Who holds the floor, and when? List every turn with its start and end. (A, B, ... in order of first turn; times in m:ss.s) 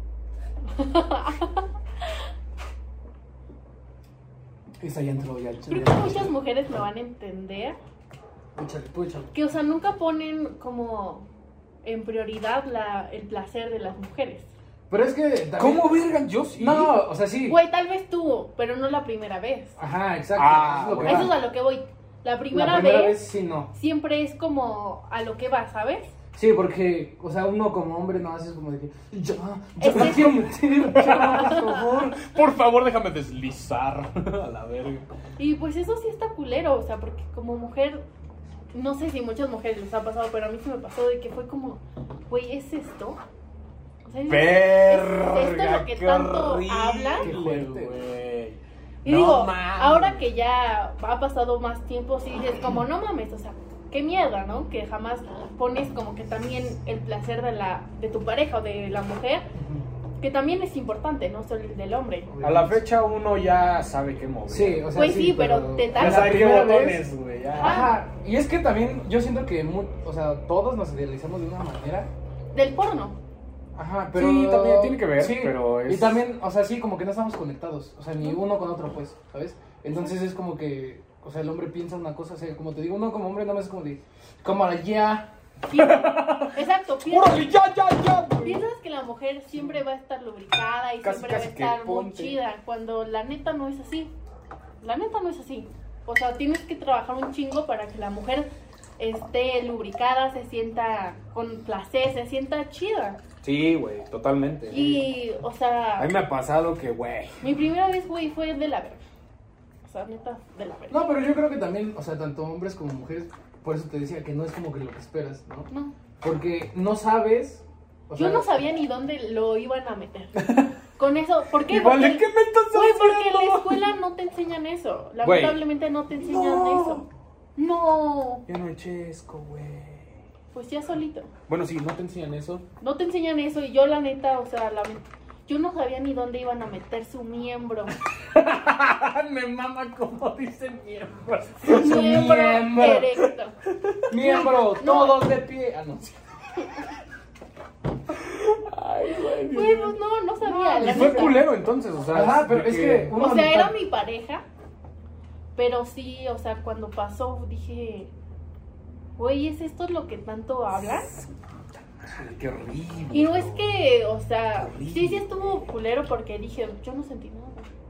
0:00.7-0:02.1 A
0:04.8-0:06.3 B
0:05.7-0:07.8 A
0:08.6-0:09.3 B
0:09.3-0:11.3 A
0:11.8-0:14.5 A
0:14.9-0:16.0 B
0:15.6-0:17.0 C
0:16.6-0:17.6 B
0:17.5-0:19.7 A
0:19.8-0:21.4 B
0:20.4-0:21.4 C
0:21.0-0:23.2 A
0:22.5-0:23.7 B
0:23.7-0:26.1 A
0:26.3-0:32.2 B
0:29.8-0:30.5 A
0:29.9-0:35.1 C
0:31.3-0:31.7 A
0:35.4-0:38.0 A
0:38.7-0:43.2 A
0:44.0-0:47.3 A
0:44.3-0:50.3 C
0:47.2-0:48.0 B
0:49.0-0:59.5 A
0:59.5-0:59.8 B
1:00.2-1:02.3 A
1:02.3-1:02.8 B
1:02.4-1:04.9 C
1:04.5-1:12.1 B
1:04.9-1:06.5 A
1:05.9-1:07.9 C
1:07.6-1:08.0 A
1:12.5-1:13.2 A
1:13.8-1:25.3 B
1:14.1-1:16.2 C
1:25.7-1:27.5 A
1:25.7-1:28.6 C
1:28.4-1:34.1 A
1:31.0-1:32.4 C
1:34.8-1:38.5 A
1:39.0-1:43.2 A
1:43.4-1:45.1 C
1:44.7-1:46.1 A
1:46.0-1:47.4 C
1:47.4-1:49.0 A
1:49.8-1:51.1 A
1:50.9-1:55.7 B
1:56.2-1:58.5 B
1:58.2-2:07.0 A
2:00.4-2:00.7 C
2:01.6-2:03.8 C
2:05.2-2:07.0 C
2:07.6-2:08.4 A
2:08.5-2:10.1 C
2:10.5-2:11.3 A
2:11.5-2:12.6 C
2:12.8-2:17.9 A
2:18.1-2:22.6 C
2:21.6-2:23.5 A
2:21.6-2:23.1 B
2:23.2-2:24.0 C
2:24.1-2:26.1 B
2:24.1-2:25.3 A
2:28.1-2:30.0 C
2:29.4-2:31.5 A
2:30.4-2:31.4 B
2:30.7-2:33.2 C
2:32.1-2:33.7 B
2:33.2-2:34.4 A
2:35.6-2:38.1 A
2:39.2-2:41.1 A
2:40.7-2:43.7 C
2:43.1-2:47.7 A
2:44.6-2:45.6 C